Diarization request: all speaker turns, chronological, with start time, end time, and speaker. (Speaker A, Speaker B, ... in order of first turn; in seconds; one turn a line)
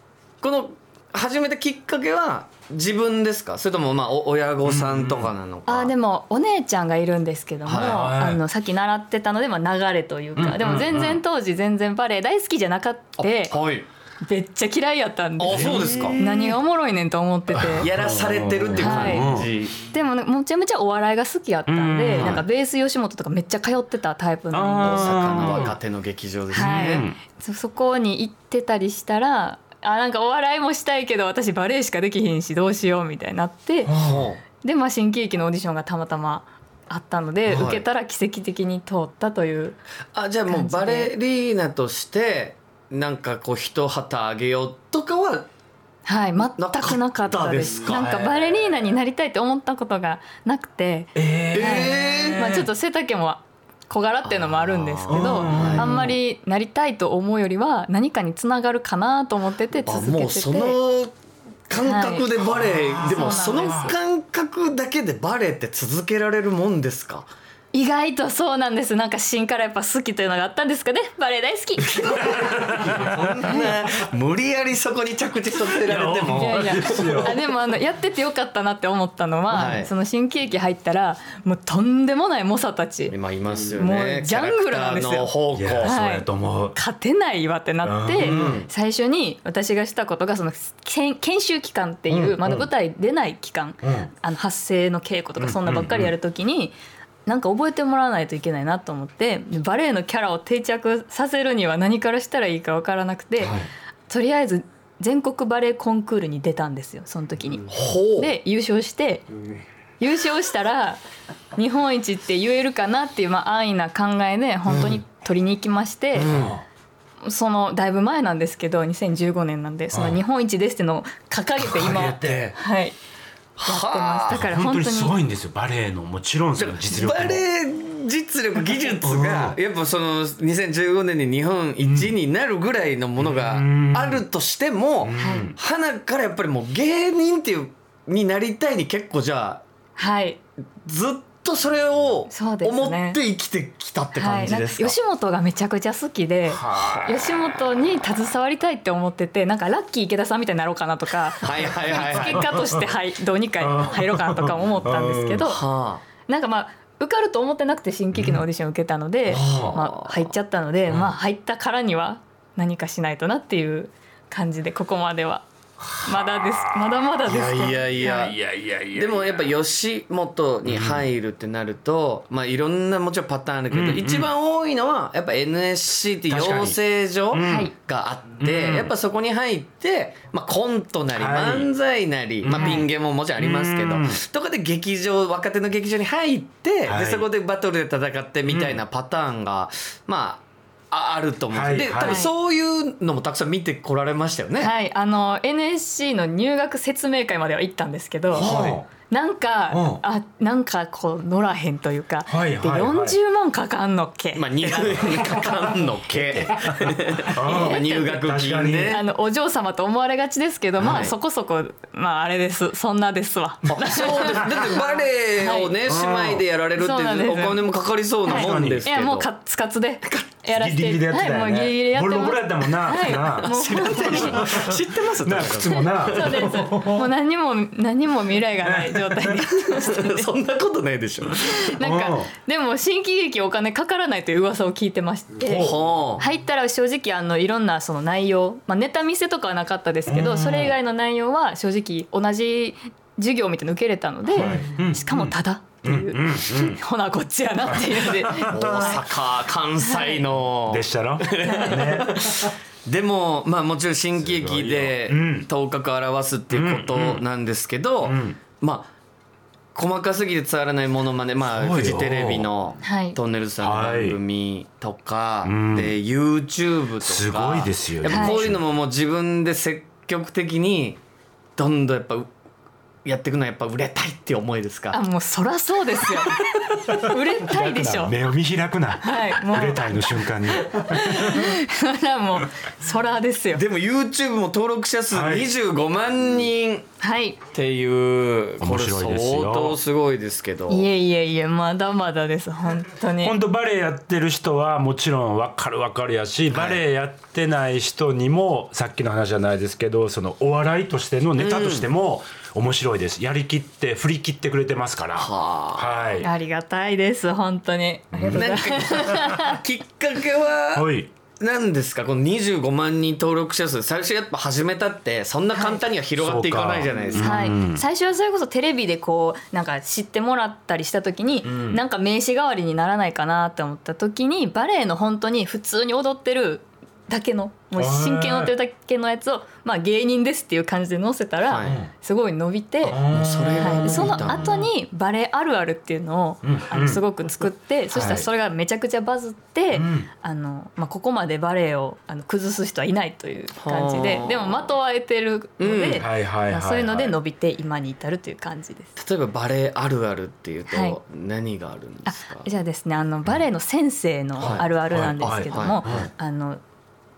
Speaker A: 0.4-5.9
Speaker B: 4.7-5.3
Speaker C: 5.7-13.6
Speaker A: 7.7-8.1
Speaker B: 7.7-8.4
Speaker B: 10.4-11.2
Speaker A: 13.2-13.9
Speaker C: 14.2-17.9
Speaker A: 15.4-16.2
Speaker B: 15.5-16.6
Speaker B: 17.5-19.5
Speaker A: 17.8-19.8
Speaker C: 18.8-19.3
Speaker C: 19.9-25.7
Speaker B: 21.7-22.4
Speaker A: 22.2-22.4
Speaker B: 24.5-25.8
Speaker A: 24.8-27.1
Speaker B: 26.5-27.2
Speaker C: 26.5-33.9
Speaker B: 33.9-34.3
Speaker A: 34.0-34.4
Speaker C: 34.6-39.8
Speaker A: 37.5-37.8
Speaker A: 40.1-45.5
Speaker C: 40.5-41.1
Speaker C: 46.1-60.8
Speaker A: 46.6-48.7
Speaker B: 51.1-52.6
Speaker A: 51.5-52.4
Speaker A: 54.2-56.1
Speaker B: 55.1-56.1
Speaker A: 59.9-61.1
Speaker A: 61.7-67.3
Speaker C: 61.8-62.3
Speaker B: 62.4-63.9
Speaker C: 63.0-64.0
Speaker C: 67.7-72.0
Speaker A: 71.9-77.3
Speaker B: 72.3-73.5
Speaker C: 73.5-73.7
Speaker B: 75.8-77.4
Speaker C: 76.3-83.2
Speaker A: 79.5-79.9
Speaker A: 83.1-85.9
Speaker C: 83.8-96.8
Speaker B: 85.5-86.8
Speaker B: 87.8-88.6
Speaker A: 88.2-88.7
Speaker B: 92.2-92.7
Speaker B: 93.8-94.1
Speaker B: 95.4-96.1
Speaker C: 97.3-103.6
Speaker C: 104.1-109.3
Speaker A: 107.7-108.3
Speaker C: 110.0-111.0
Speaker C: 111.6-116.3
Speaker A: 114.7-115.0
Speaker A: 116.2-116.6
Speaker B: 116.2-116.7
Speaker C: 117.2-123.0
Speaker B: 119.9-120.2
Speaker B: 121.6-122.5
Speaker A: 122.1-122.5
Speaker A: 123.6-124.4
Speaker C: 123.7-125.2
Speaker B: 124.3-127.4
Speaker A: 126.6-139.6
Speaker B: 129.0-129.6
Speaker B: 131.8-132.1
Speaker B: 133.2-134.2
Speaker B: 135.0-135.6
Speaker C: 135.2-135.5
Speaker C: 140.0-140.4
Speaker A: 140.8-145.0
Speaker C: 142.3-143.2
Speaker C: 144.2-155.6
Speaker B: 146.5-147.1
Speaker A: 146.7-147.1
Speaker A: 151.4-152.6
Speaker B: 152.1-152.8
Speaker B: 153.6-155.5
Speaker A: 155.5-156.0
Speaker C: 156.3-165.5
Speaker B: 158.2-158.4
Speaker A: 159.3-160.3
Speaker B: 160.9-161.1
Speaker B: 165.9-167.1
Speaker C: 166.0-168.3
Speaker A: 167.3-168.4
Speaker B: 168.0-169.5
Speaker A: 168.9-194.7
Speaker B: 170.7-171.1
Speaker B: 173.7-174.3
Speaker B: 176.3-176.8
Speaker B: 177.3-177.7
Speaker C: 177.4-177.7
Speaker B: 178.4-178.9
Speaker B: 181.1-181.7
Speaker B: 182.4-184.2
Speaker C: 182.6-182.8
Speaker B: 186.9-187.3
Speaker B: 188.5-188.8
Speaker B: 191.5-192.2
Speaker C: 192.0-192.3
Speaker C: 194.6-198.5
Speaker B: 198.3-198.9
Speaker A: 198.3-198.8
Speaker C: 199.1-205.5
Speaker B: 199.7-200.0
Speaker B: 202.3-203.2
Speaker A: 204.3-209.0
Speaker B: 206.3-209.0
Speaker C: 207.4-208.2
Speaker C: 208.9-215.7
Speaker A: 210.8-211.1
Speaker A: 213.7-219.3
Speaker B: 215.8-216.4
Speaker C: 216.8-217.7
Speaker C: 218.3-224.5
Speaker B: 218.3-218.9
Speaker B: 220.5-227.1
Speaker A: 223.4-226.5
Speaker C: 225.7-230.3
Speaker B: 228.6-229.4
Speaker A: 229.7-231.6
Speaker C: 231.4-249.0
Speaker B: 231.8-232.3
Speaker B: 235.4-235.8
Speaker A: 235.5-236.2
Speaker B: 240.1-240.8
Speaker B: 244.3-246.8
Speaker B: 247.7-249.0
Speaker A: 248.5-258.9
Speaker C: 249.8-250.2
Speaker B: 250.7-252.5
Speaker C: 251.4-252.0
Speaker B: 254.2-255.5
Speaker B: 256.5-257.2
Speaker B: 258.0-258.4
Speaker A: 259.8-271.0
Speaker B: 261.5-262.5
Speaker C: 262.8-263.2
Speaker B: 263.6-264.2
Speaker B: 265.4-266.0
Speaker B: 267.0-268.6
Speaker C: 268.1-268.4
Speaker A: 271.6-272.3
Speaker A: 273.1-275.0
Speaker C: 274.9-278.1
Speaker B: 276.9-281.6
Speaker C: 279.0-283.6
Speaker A: 283.5-286.9
Speaker B: 285.1-285.5
Speaker C: 287.0-287.4
Speaker A: 287.5-290.9
Speaker B: 288.6-289.8
Speaker C: 290.7-293.4
Speaker B: 293.2-306.3
Speaker A: 296.5-296.8
Speaker A: 301.4-301.9
Speaker A: 305.2-305.9
Speaker C: 306.2-309.6
Speaker B: 308.1-308.5
Speaker A: 308.3-317.5
Speaker B: 310.7-311.1
Speaker C: 315.5-315.8
Speaker B: 316.2-317.8
Speaker C: 317.2-333.0
Speaker B: 321.4-321.8
Speaker B: 327.8-328.5
Speaker A: 331.5-331.8
Speaker B: 331.6-331.9
Speaker B: 332.9-334.7
Speaker A: 333.1-334.6
Speaker C: 333.6-348.9
Speaker B: 336.4-337.0
Speaker A: 337.9-338.2
Speaker B: 337.9-338.2
Speaker B: 339.7-340.1
Speaker A: 343.6-344.7
Speaker A: 345.6-346.1
Speaker B: 346.0-347.2
Speaker A: 349.0-352.5
Speaker C: 350.7-351.0
Speaker C: 352.1-356.6
Speaker B: 354.4-356.1
Speaker A: 354.4-354.7
Speaker A: 355.2-356.1